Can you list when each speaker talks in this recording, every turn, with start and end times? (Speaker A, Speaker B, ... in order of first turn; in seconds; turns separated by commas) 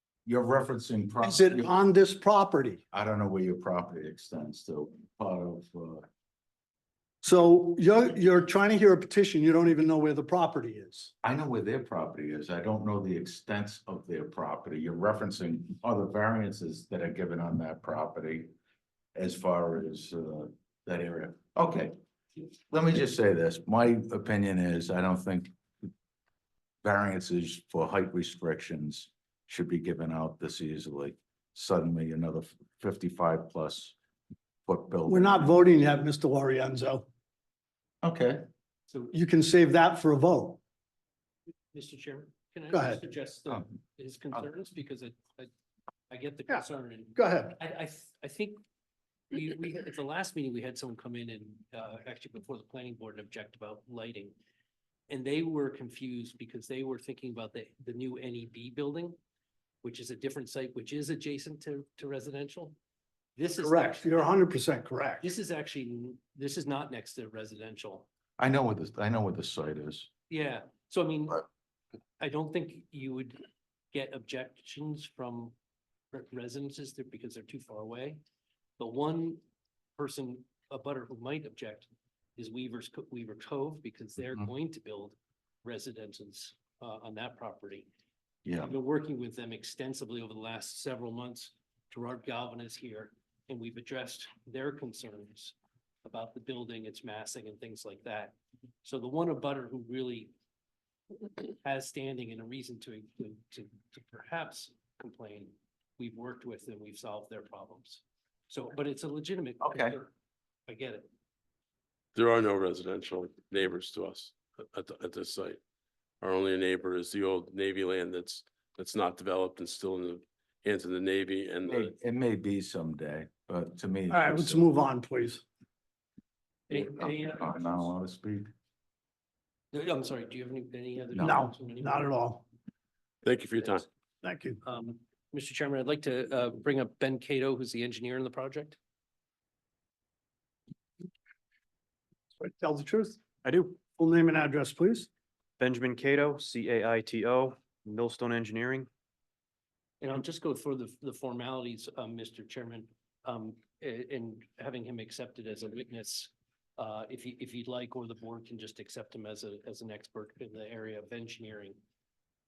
Speaker A: 0.2-1.7, Speaker B: 1.2-2.8, Speaker A: 2.9-6.0, Speaker B: 7.2-11.1, Speaker A: 11.2-18.5, Speaker A: 19.1-21.9, Speaker A: 22.7-25.5, Speaker A: 26.8-33.9, Speaker A: 34.6-35.5, Speaker B: 35.1-37.1, Speaker A: 38.0-38.4, Speaker C: 38.9-39.1, Speaker B: 39.1-40.6, Speaker C: 41.7-45.5, Speaker B: 42.7-43.0, Speaker C: 46.1-48.6, Speaker B: 47.1-47.5, Speaker C: 49.3-54.3, Speaker C: 55.1-59.2, Speaker C: 59.8-62.7, Speaker C: 63.4-64.3, Speaker B: 63.6-65.2, Speaker C: 65.2-68.1, Speaker A: 68.4-70.1, Speaker C: 70.3-71.4, Speaker C: 72.2-75.5, Speaker C: 76.1-78.2, Speaker C: 78.8-79.4, Speaker C: 80.0-87.9, Speaker A: 88.4-88.7, Speaker C: 88.6-100.3, Speaker C: 101.5-110.1, Speaker A: 109.6-110.0, Speaker C: 110.7-111.1, Speaker D: 112.1-115.6, Speaker D: 116.2-121.9, Speaker A: 121.7-124.6, Speaker B: 124.1-125.4, Speaker C: 126.7-127.9, Speaker A: 126.7-128.5, Speaker C: 129.7-132.1, Speaker A: 131.1-131.4, Speaker B: 131.2-132.4, Speaker D: 133.2-133.8, Speaker B: 134.2-134.6, Speaker C: 134.6-138.8, Speaker B: 142.4-143.2, Speaker E: 143.4-143.8, Speaker B: 143.9-145.1, Speaker E: 145.6-148.9, Speaker C: 150.0-161.8